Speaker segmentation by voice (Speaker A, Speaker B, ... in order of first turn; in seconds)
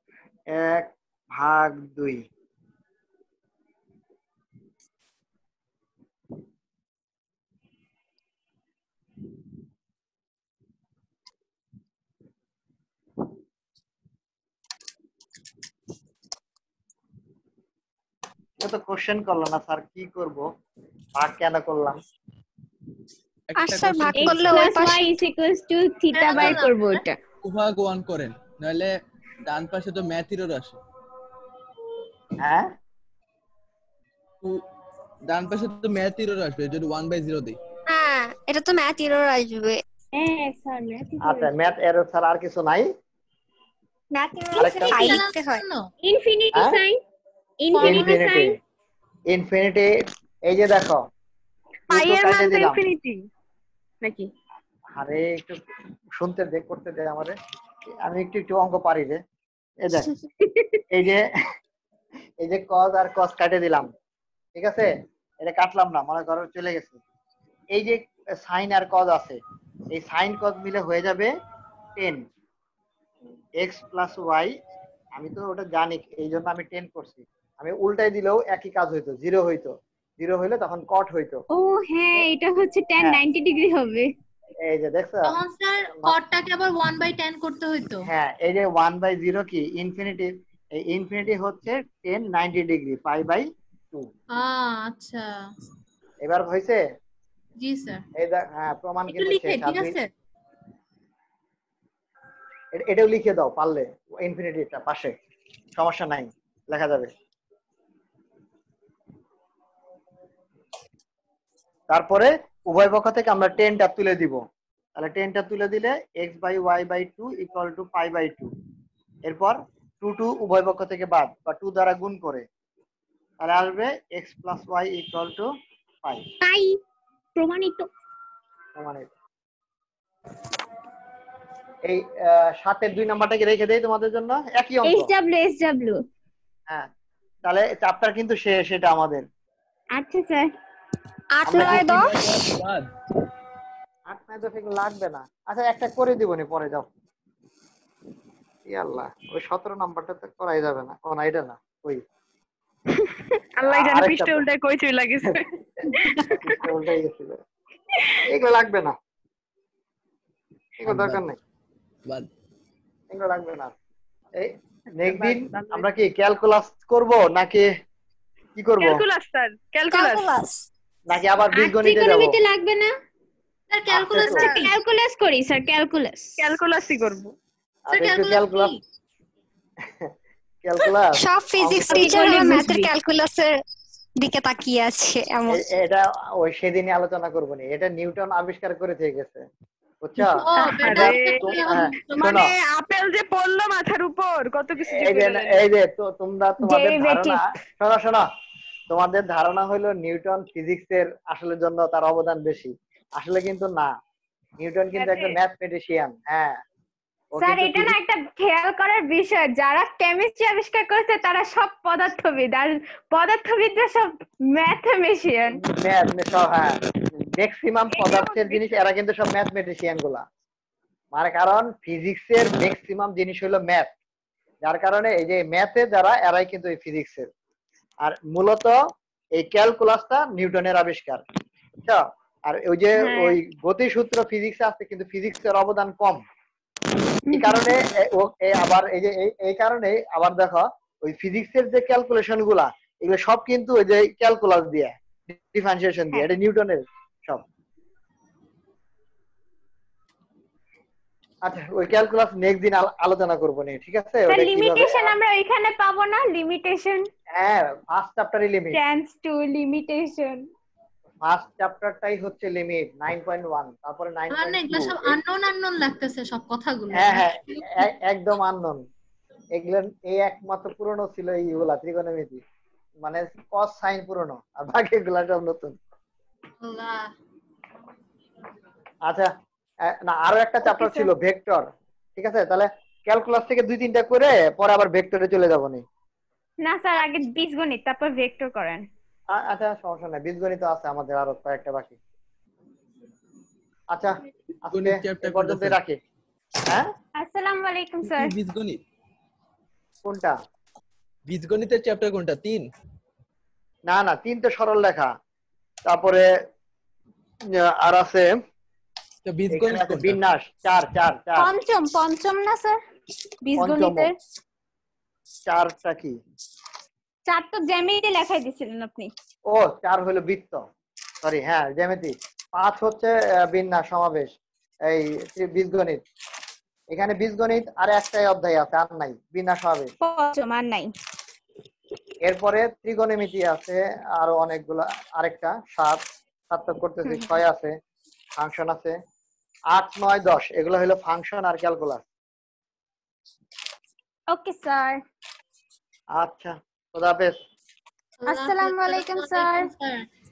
Speaker A: 0.5-2.2, 18.6-20.5, 21.2-22.0, 26.3-26.6, 32.4-32.7, 41.2-42.9, 44.6-45.2, 47.8-48.6, 49.3-49.9, 50.5-51.0, 51.9-52.8, 55.0-55.6, 56.2-57.4, 58.0-59.2, 59.8-60.1, 60.9-61.3, 62.4-63.9, 64.6-64.9, 65.4-67.0, 67.7-69.4, 69.9-71.3, 72.0-72.2, 73.6-74.5, 75.2-81.4, 84.7-85.4, 88.0-94.1, 96.2-96.8, 98.2-100.0, 102.8-105.2, 105.8-107.1, 111.9-114.4, 115.0-118.5, 119.3-122.5, 123.4-125.5, 126.0-126.3, 128.8-129.1, 131.9-135.1, 137.5-139.2, 141.5-141.9, 144.1-146.9, 148.7-152.0, 153.7-154.4, 155.3-157.4, 158.2-158.9, 160.8-161.4, 163.1-163.7, 164.4-167.7, 168.6-169.0, 171.1-172.4, 173.9-174.5, 177.9-178.7, 179.8-180.1, 180.6-182.6, 185.5-189.4, 190.0-192.5, 194.8-198.2, 198.9-203.9, 204.6-206.6, 207.3-208.0, 215.6-220.2, 221.1-223.9, 224.6-227.3, 228.0-228.8, 229.3-231.2, 231.8-236.2, 237.3-247.4, 251.4-255.2, 257.3-258.8, 261.2-265.2, 266.9-268.8, 269.6-272.4, 273.0-275.8, 279.9-285.8, 289.3-292.0, 293.9-296.0, 300.1-300.4, 303.9-305.1, 305.9-306.3, 307.6-308.4, 309.5-311.5, 313.6-314.1, 315.5-316.2, 319.5-320.6, 321.2-324.4, 324.9-326.0, 326.9-329.9, 332.2-337.7, 338.4-339.0, 339.7-342.1, 346.1-347.4
Speaker B: 23.5-24.6, 27.4-28.9, 29.5-30.8, 35.3-37.6, 141.5-142.9, 160.9-161.2, 294.7-295.8, 298.1-298.8, 301.3-302.7, 309.2-310.2
Speaker C: 23.6-25.1, 37.9-39.8, 44.1-45.6, 141.4-142.2, 169.9-170.6, 181.2-183.5, 184.2-185.7
Speaker D: 24.2-27.2, 40.1-41.6, 46.0-47.0, 47.6-48.5, 81.5-84.1, 126.4-126.8, 127.4-127.9, 134.9-136.0, 140.0-140.5, 171.5-172.9, 174.6-176.3, 181.8-182.9, 196.6-197.5, 207.4-215.6, 233.0-233.4, 237.3-237.7, 254.3-257.1, 258.7-260.5, 280.6-281.1, 286.6-288.9, 297.2-298.4, 311.4-312.8, 313.4-314.1, 317.3-319.1, 330.0-330.9, 337.1-337.4, 344.3-345.0, 348.3-349.7
Speaker E: 26.1-27.1, 44.6-45.9, 47.7-48.2, 85.2-88.0, 94.3-95.3, 97.6-98.0, 99.1-100.1, 173.7-174.7, 177.9-178.8, 190.2-192.4, 264.3-267.9, 276.6-277.1, 348.2-350.1
Speaker F: 51.9-53.3, 54.0-54.3, 153.0-156.3, 165.1-165.9, 168.8-170.3, 174.2-174.7, 176.4-177.3, 190.6-195.6, 205.0-205.4, 218.0-218.7